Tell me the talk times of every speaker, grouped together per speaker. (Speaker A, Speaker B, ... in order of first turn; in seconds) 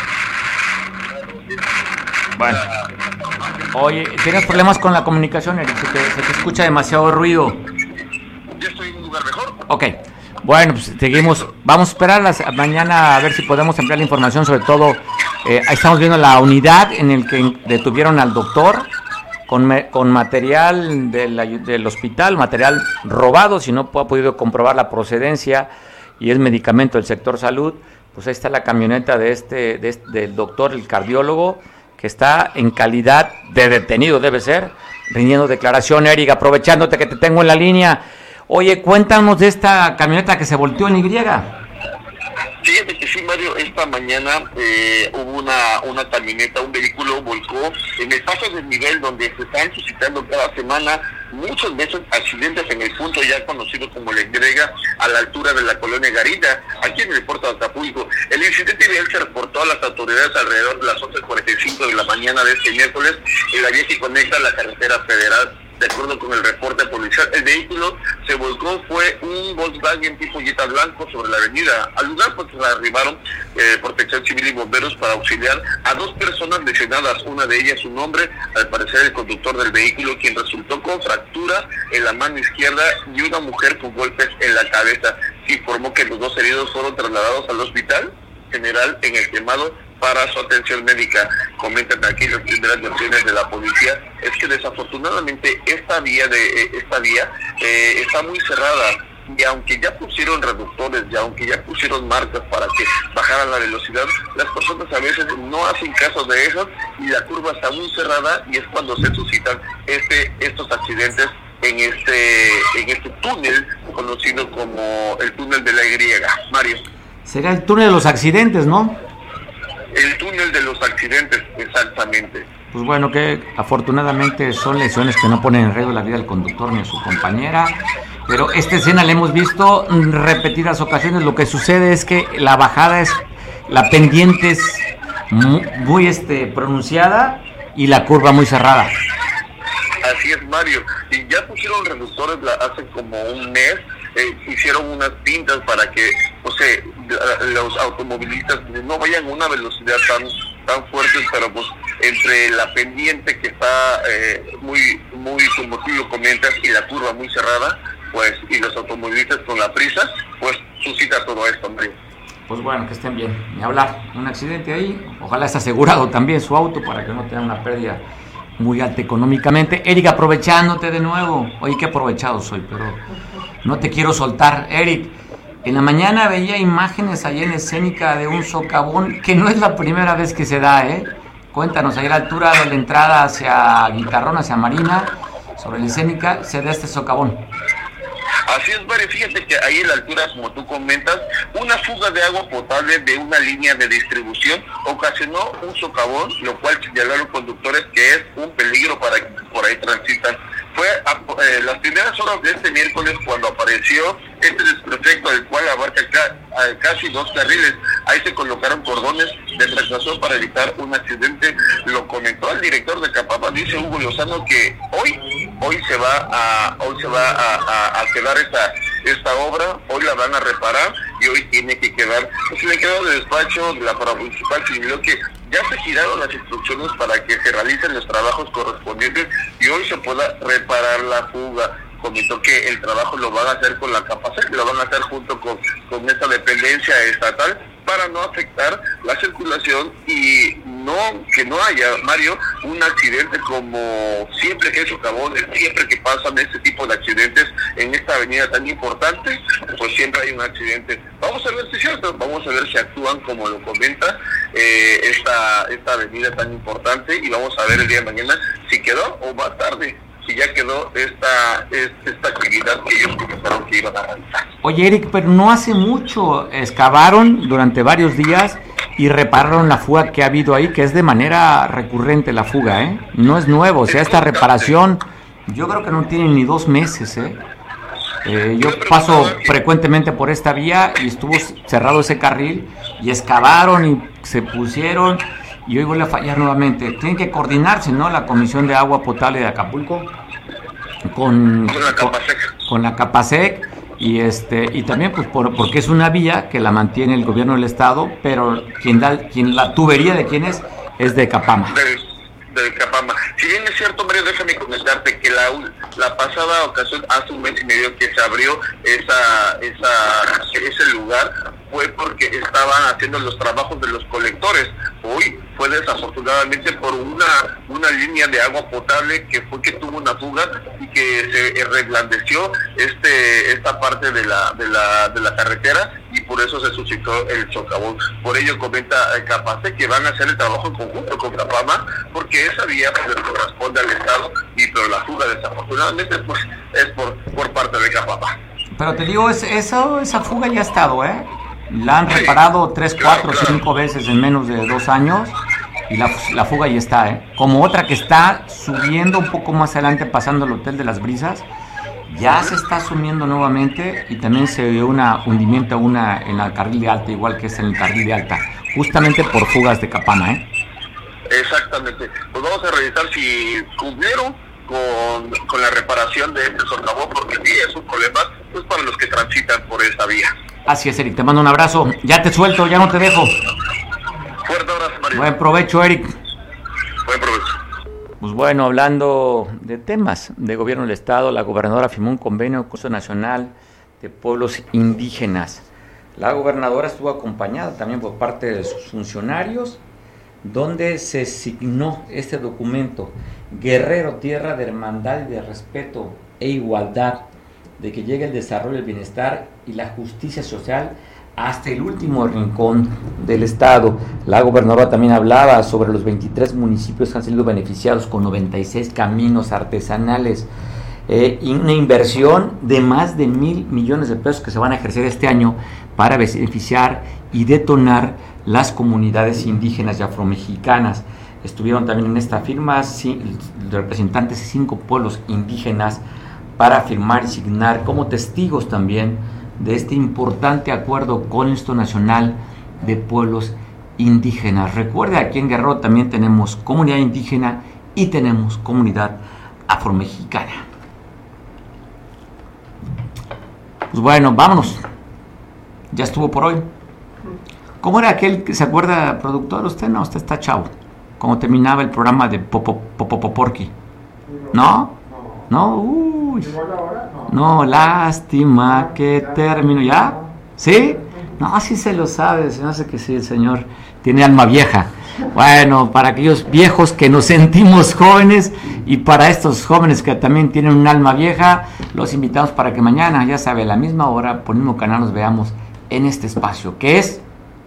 Speaker A: 1.1-3.6, 4.3-4.6, 8.6-9.6, 42.6-116.8, 119.9-122.5, 140.0-161.9, 188.5-264.4, 273.9-274.8, 278.6-279.6, 291.7-292.5, 301.7-338.4, 342.1-342.3, 343.0-343.5, 361.3-370.3, 374.4-375.3, 377.0-377.5
Speaker B: 2.4-2.6, 3.7-7.6, 9.7-18.9, 19.5-41.5, 117.2-119.0, 122.7-127.8, 128.3-138.9, 162.5-168.0, 168.6-173.0, 173.6-187.4, 264.6-277.4, 278.2-290.1, 291.1-301.8, 338.8-345.3, 345.9-351.5, 352.1-360.4, 370.7-373.4, 375.1-376.1, 378.2-385.6, 386.1-389.8, 390.4-410.5, 411.1-426.0, 426.6-440.6, 443.9-444.8, 445.9-446.7, 447.8-453.7, 454.5-456.6, 457.2-477.2